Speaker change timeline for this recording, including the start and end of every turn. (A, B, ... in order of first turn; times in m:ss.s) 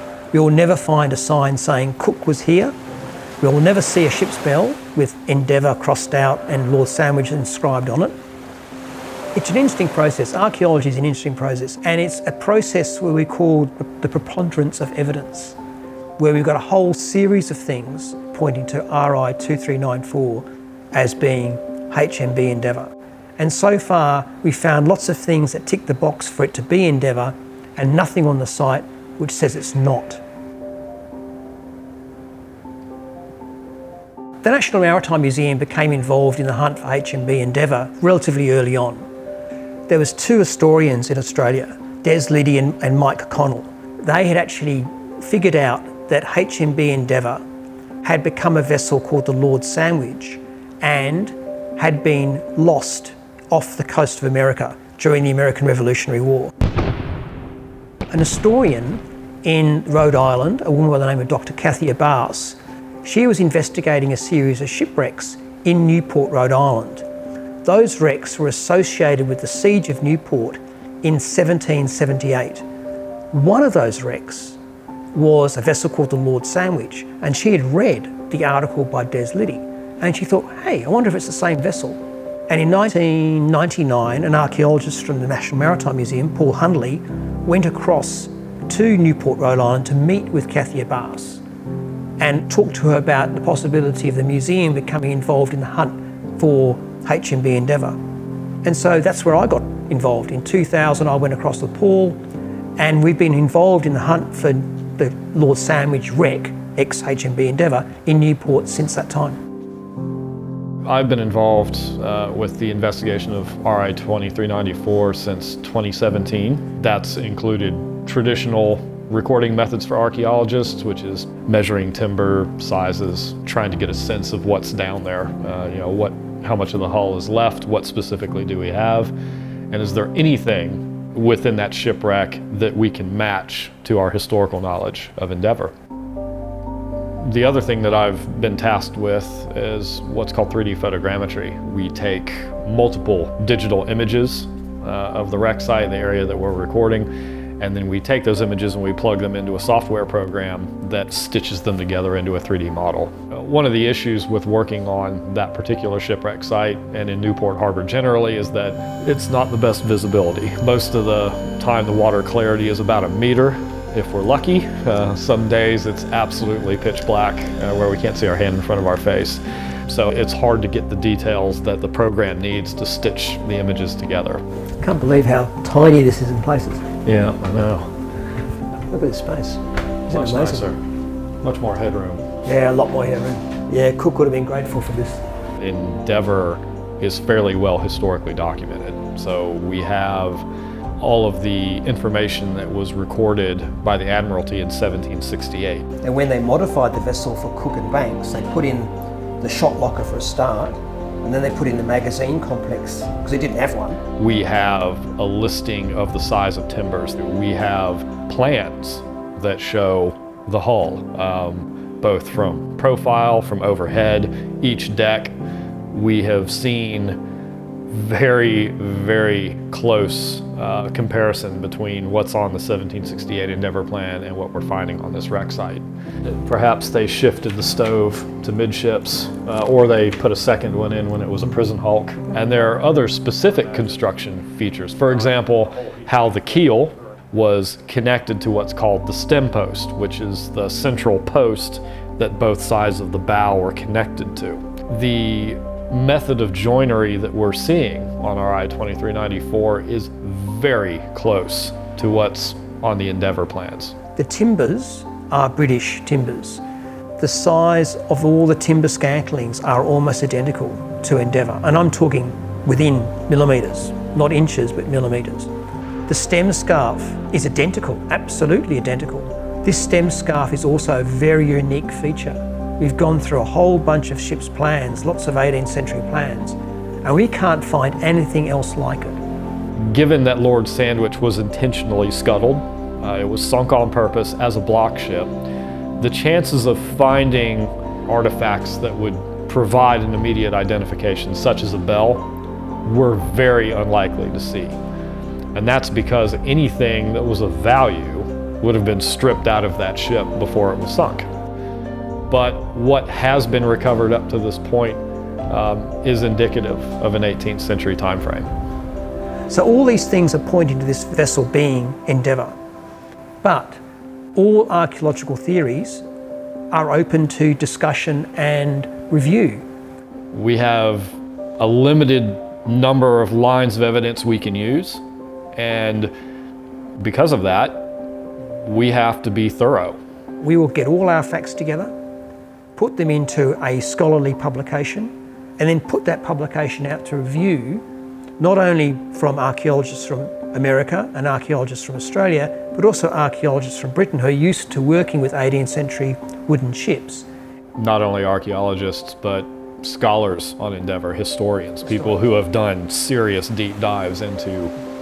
0:00.3-0:02.7 A
0:03.4-0:08.1 A
0:09.4-0:15.6 A
0:16.2-0:30.2 A
0:34.4-0:39.1 A
0:39.9-0:47.4 A
0:48.0-0:56.5 A
0:58.1-1:07.0 A
1:07.6-1:12.6 A
1:13.3-1:14.6 A
1:15.1-1:31.4 A
1:32.2-1:38.0 A
1:38.6-1:42.2 A
1:42.8-1:49.4 A
1:50.9-2:09.1 B
2:09.7-2:15.7 B
2:17.2-2:54.4 B
2:54.8-2:56.8 A
2:57.0-2:57.9 B
2:58.9-3:00.7 A
3:00.1-3:00.8 B
3:01.4-3:02.3 B
3:02.4-3:05.2 A
3:05.6-3:10.5 B
3:11.0-3:15.9 B
3:16.0-3:24.0 A
3:24.2-3:35.3 B
3:35.9-3:37.2 B
3:37.9-4:14.0 B
4:14.2-4:16.6 A
4:17.2-4:25.5 A
4:26.1-4:39.2 A
4:39.8-4:45.3 B
4:46.0-4:52.3 B
4:52.8-4:54.8 B
4:55.5-5:01.3 B
5:02.3-5:08.5 B
5:09.5-5:12.6 A
5:13.4-5:13.8 A
5:14.4-5:16.0 A
5:16.7-5:19.7 A
5:20.3-5:25.0 B
5:25.6-5:26.1 B
5:27.0-5:27.9 B
5:28.6-5:30.0 B
5:30.4-5:31.9 A
5:32.8-5:37.8 A
5:38.4-5:47.3 A
5:47.8-5:54.7 B